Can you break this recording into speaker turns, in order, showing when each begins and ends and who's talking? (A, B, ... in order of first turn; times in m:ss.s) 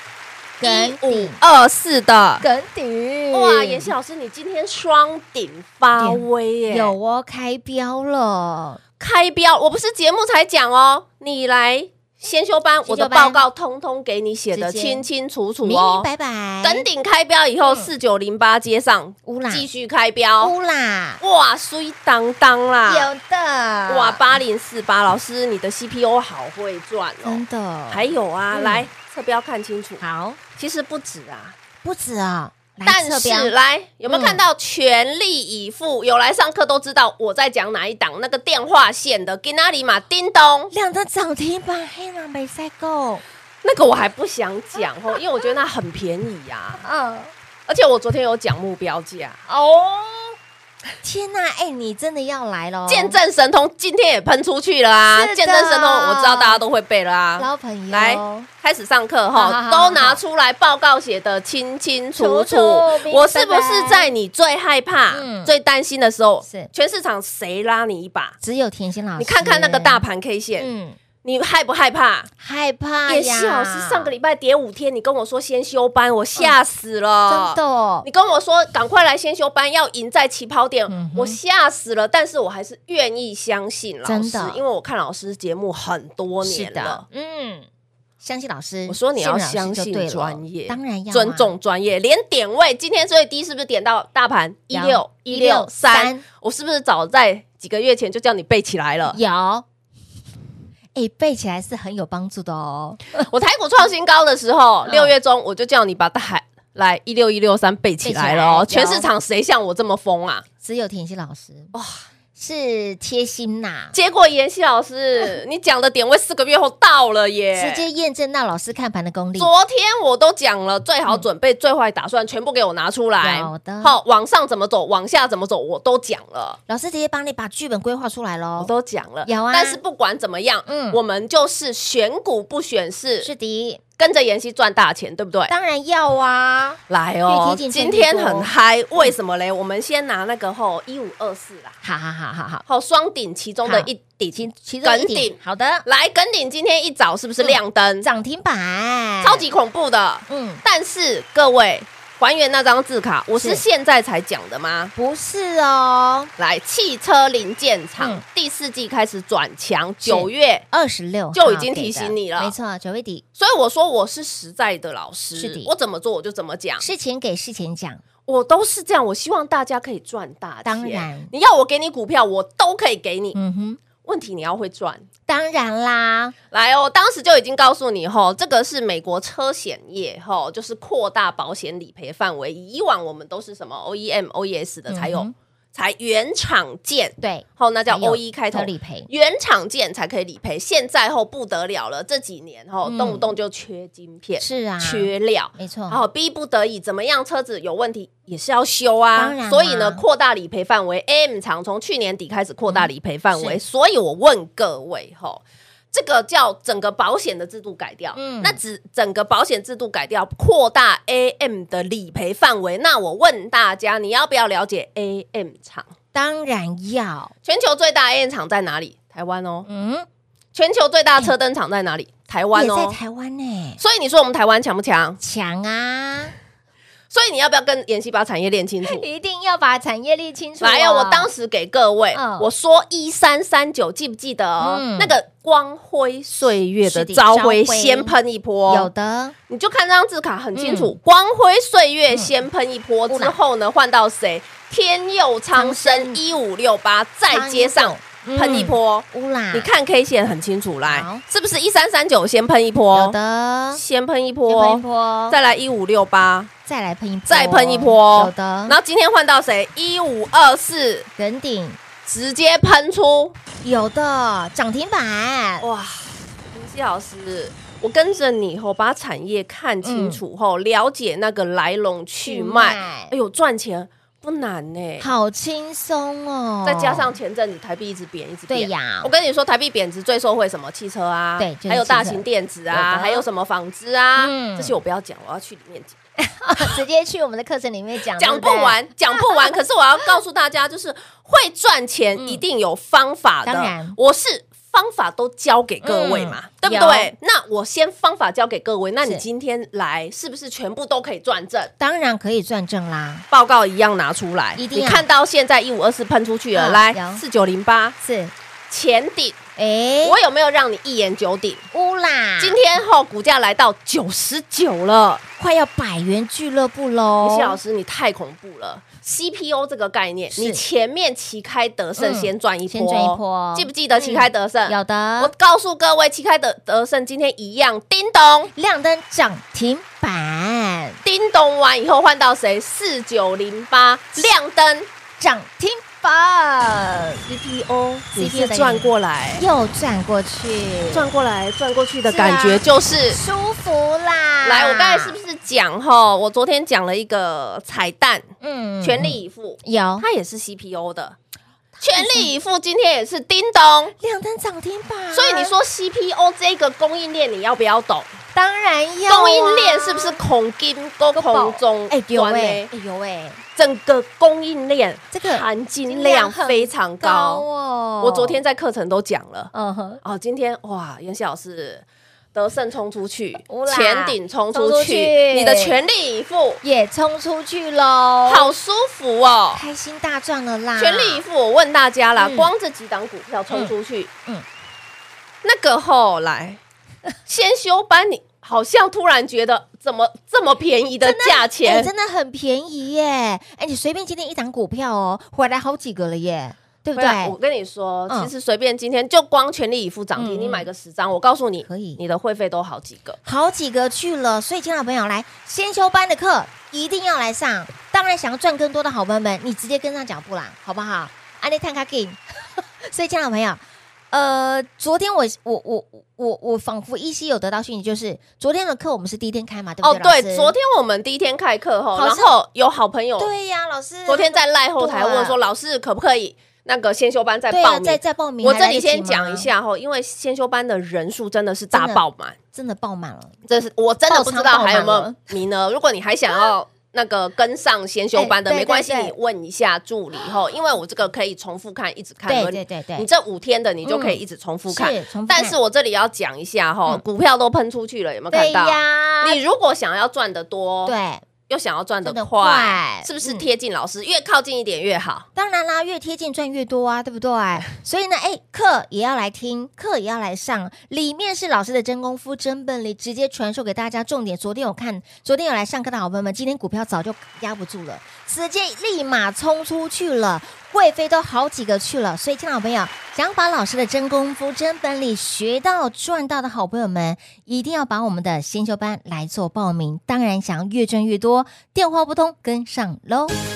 0:00.6-0:01.4 A
0:00.6-0:02.4 B
0:02.4-0:03.9 A
0:03.3-0:07.0 B
0:06.0-0:08.8 A
0:09.0-0:16.1 B
0:12.9-0:13.4 A
0:14.5-0:15.0 A
0:15.6-0:16.9 A
0:16.6-0:20.5 B
0:17.6-0:17.9 A
0:19.3-0:19.7 A
0:20.4-0:21.2 A
0:21.2-0:23.1 B
0:22.8-0:24.2 A
0:23.9-0:30.0 B
0:27.2-0:28.9 A
0:30.0-0:30.4 A
0:30.6-0:31.6 B
0:31.8-0:33.5 A
0:32.8-0:40.7 B
0:34.1-0:34.4 A
0:40.7-0:43.2 A
0:43.6-0:46.8 B
0:46.8-0:47.3 A
0:47.7-0:49.4 B
0:49.5-0:50.4 A
0:51.0-0:53.2 A
0:52.9-1:08.4 B
0:55.1-0:56.6 A
0:57.4-0:58.5 A
0:59.3-1:00.2 A
1:02.2-1:04.1 A
1:05.1-1:05.5 A
1:06.4-1:06.7 A
1:08.4-1:10.0 A
1:09.2-1:10.7 B
1:10.6-1:11.0 A
1:11.2-1:12.3 B
1:12.4-1:14.1 A
1:13.1-1:27.0 B
1:17.3-1:18.1 A
1:20.9-1:21.4 A
1:24.0-1:24.6 A
1:26.4-1:27.7 A
1:28.2-1:31.5 A
1:28.9-1:39.2 B
1:34.7-1:36.2 A
1:39.1-1:39.6 A
1:41.0-1:43.2 A
1:43.2-1:50.4 B
1:44.9-1:45.1 A
1:48.0-1:49.1 A
1:50.6-1:51.7 A
1:51.7-1:52.0 B
1:52.4-1:54.0 A
1:53.9-1:57.8 B
1:57.5-1:59.5 A
1:59.4-2:06.6 B
2:03.2-2:04.0 A
2:06.7-2:08.7 A
2:08.6-2:13.3 B
2:09.2-2:09.8 A
2:10.7-2:11.0 A
2:13.2-2:13.8 A
2:14.0-2:15.5 B
2:15.5-2:19.1 A
2:16.9-2:21.8 B
2:21.8-2:22.6 A
2:22.7-2:28.1 B
2:23.6-2:25.8 A
2:27.4-2:29.4 A
2:29.2-2:34.9 B
2:30.3-2:30.6 A
2:33.4-2:33.6 A
2:35.0-2:36.3 A
2:36.4-2:40.6 B
2:38.0-2:38.2 A
2:40.0-2:43.2 A
2:41.3-2:42.6 B
2:43.4-2:46.9 B
2:45.4-2:45.7 A
2:46.8-2:48.0 A
2:48.3-2:53.4 B
2:50.6-2:51.3 A
2:53.4-2:53.8 A
2:54.0-2:55.1 B
2:55.3-2:56.4 A
2:56.5-3:35.9 B
3:04.9-3:05.3 A
3:07.2-3:09.1 A
3:12.8-3:13.3 A
3:14.4-3:16.0 A
3:19.2-3:20.0 A
3:22.7-3:23.6 A
3:28.2-3:28.6 A
3:36.1-3:37.3 A
3:37.4-3:39.7 B
3:39.7-3:40.1 A
3:40.5-3:43.0 B
3:42.5-3:43.8 A
3:43.8-3:45.2 B
3:45.2-3:46.3 A
3:47.1-3:49.0 B
3:48.8-3:51.3 A
3:50.6-3:58.9 B
3:52.1-3:52.5 A
3:54.6-3:55.2 A
3:56.8-3:58.2 A
3:58.7-3:59.4 A
3:59.5-4:13.2 B
4:00.6-4:00.9 A
4:03.1-4:03.4 A
4:05.6-4:06.2 A
4:07.3-4:09.7 A
4:10.9-4:11.2 A
4:12.9-4:13.8 A
4:13.7-4:16.5 B
4:14.5-4:15.4 A
4:16.7-4:18.8 A
4:17.3-4:21.1 B
4:21.2-4:21.8 A
4:22.1-4:23.4 B
4:23.6-4:25.7 A
4:25.6-4:35.1 B
4:29.8-4:30.2 A
4:32.3-4:33.1 A
4:35.0-4:37.2 A
4:36.6-4:46.0 B
4:38.5-4:39.1 A
4:41.4-4:43.2 A
4:44.2-4:44.8 A
4:46.2-4:49.6 A
4:48.2-5:01.7 B
4:52.2-4:52.4 A
4:53.4-4:54.0 A
4:55.8-4:57.1 A
5:01.8-5:03.3 A
5:03.3-5:08.0 B
5:04.6-5:05.0 A
5:06.5-5:07.2 A
5:08.0-5:08.3 A
5:08.7-5:09.4 B
5:09.6-5:10.2 A
5:10.0-5:11.6 B
5:11.7-5:12.6 A
5:12.4-5:15.2 B
5:15.4-5:17.6 A
5:17.2-5:28.5 B
5:20.3-5:20.6 A
5:22.0-5:25.3 A
5:28.6-5:31.0 A
5:31.0-5:34.9 B
5:35.2-5:37.2 A
5:37.3-5:39.4 B
5:38.1-5:41.1 A
5:40.9-5:43.2 B
5:42.1-5:45.2 A
5:44.4-5:48.3 B
5:48.4-5:50.1 A
5:48.8-5:51.2 B
5:51.8-5:54.0 B
5:51.9-5:52.3 A
5:54.0-5:55.5 A
5:55.1-5:58.1 B
5:58.3-6:00.2 A
5:59.1-6:02.7 B
6:01.1-6:03.4 A
6:03.6-6:07.4 B
6:05.1-6:08.4 A
6:08.0-6:16.6 B
6:09.5-6:10.0 A
6:13.5-6:15.8 A
6:16.6-6:18.5 A
6:18.3-6:19.6 B
6:19.5-6:21.2 A
6:20.8-6:24.1 B
6:22.2-6:22.5 A
6:25.4-6:26.6 B
6:27.3-6:31.9 B
6:31.0-6:37.4 A
6:37.0-6:43.2 B
6:40.2-6:40.7 A
6:41.6-6:42.0 A
6:43.2-7:00.5 A
6:59.8-7:03.3 B
7:01.9-7:02.3 A
7:03.2-7:05.4 A
7:04.1-7:12.4 B
7:07.5-7:09.5 A
7:11.7-7:12.0 A
7:12.5-7:13.4 A
7:13.5-7:31.0 B
7:14.1-7:15.3 A
7:18.2-7:19.1 A
7:22.3-7:23.1 A
7:23.8-7:25.6 A
7:28.3-7:29.4 A
7:30.8-7:31.2 A
7:31.5-7:35.3 B
7:32.0-7:33.5 A
7:35.4-8:03.4 A